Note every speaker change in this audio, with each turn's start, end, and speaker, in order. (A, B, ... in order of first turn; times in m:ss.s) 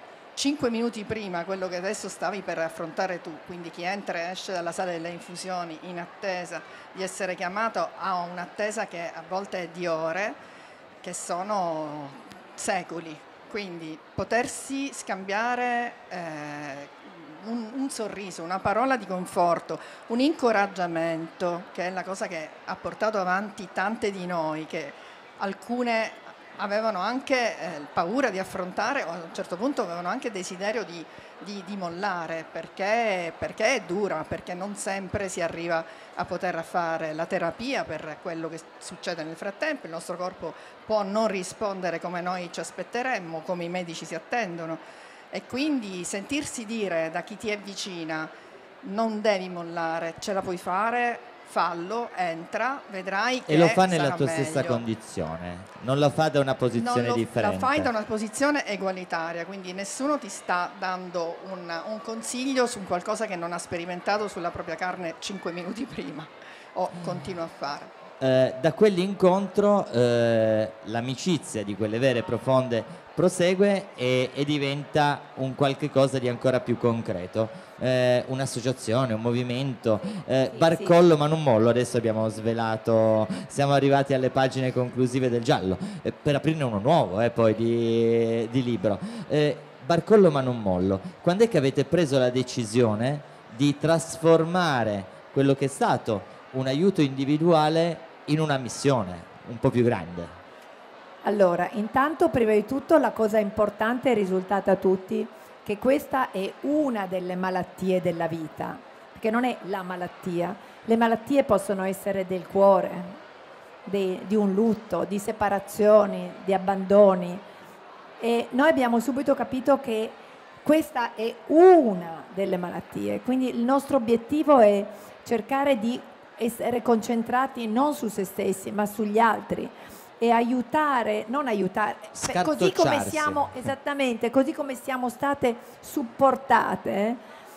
0:00.4-0:10.4 A
0:11.0-0:48.3 A
0:48.8-0:54.8 A
0:53.4-0:57.9 B
0:56.7-1:07.9 A
1:08.2-1:40.3 B
1:20.5-1:20.9 C
1:41.2-1:53.2 C
1:53.8-1:57.4 C
1:58.2-2:17.2 C
2:12.1-2:13.5 B